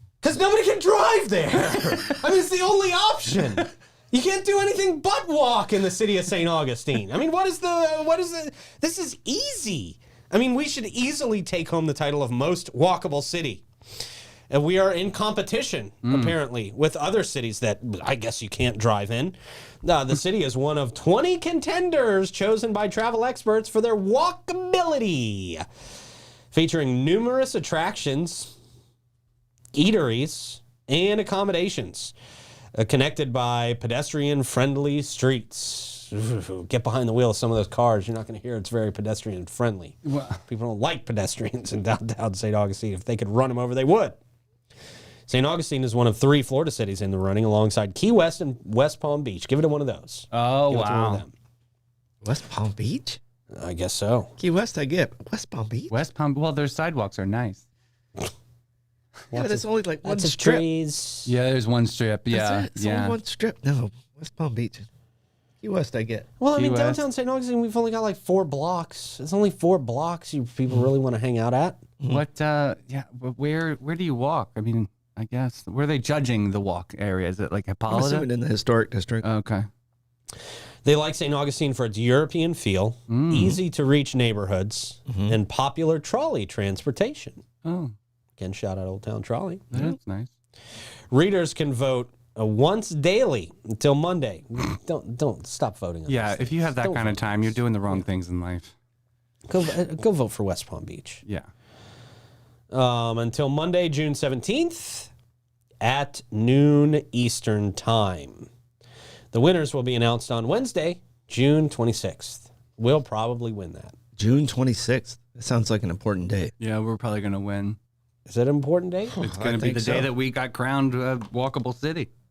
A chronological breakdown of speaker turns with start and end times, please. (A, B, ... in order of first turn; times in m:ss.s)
0:00.2-0:13.6 A
0:14.5-0:25.6 A
0:16.0-0:16.4 B
0:26.5-0:28.5 A
0:29.7-0:32.1 A
0:32.8-0:44.2 A
0:40.0-0:40.4 B
0:45.3-0:51.3 A
0:50.3-0:51.2 B
0:52.2-0:53.2 C
0:53.5-0:54.3 A
0:54.4-0:56.0 C
0:55.9-0:57.6 B
0:59.3-1:00.6 C
0:59.3-1:01.3 A
1:01.2-1:03.2 B
1:02.3-1:04.8 C
1:05.6-1:06.3 C
1:06.4-1:11.8 A
1:06.5-1:07.0 B
1:12.1-1:18.3 B
1:17.9-1:19.2 C
1:19.2-1:19.6 B
1:20.8-1:27.4 A
1:23.1-1:23.6 B
1:25.1-1:25.4 C
1:27.6-1:27.9 B
1:28.4-1:29.7 A
1:29.7-1:30.3 B
1:31.1-1:38.0 A
1:36.1-1:38.7 B
1:39.5-1:41.2 A
1:42.7-1:45.1 A
1:45.8-1:48.5 A
1:49.3-1:53.9 A
1:54.2-1:56.5 C
1:56.6-1:57.8 B
1:58.2-1:59.2 A
1:59.1-2:00.1 C
1:59.2-2:02.1 B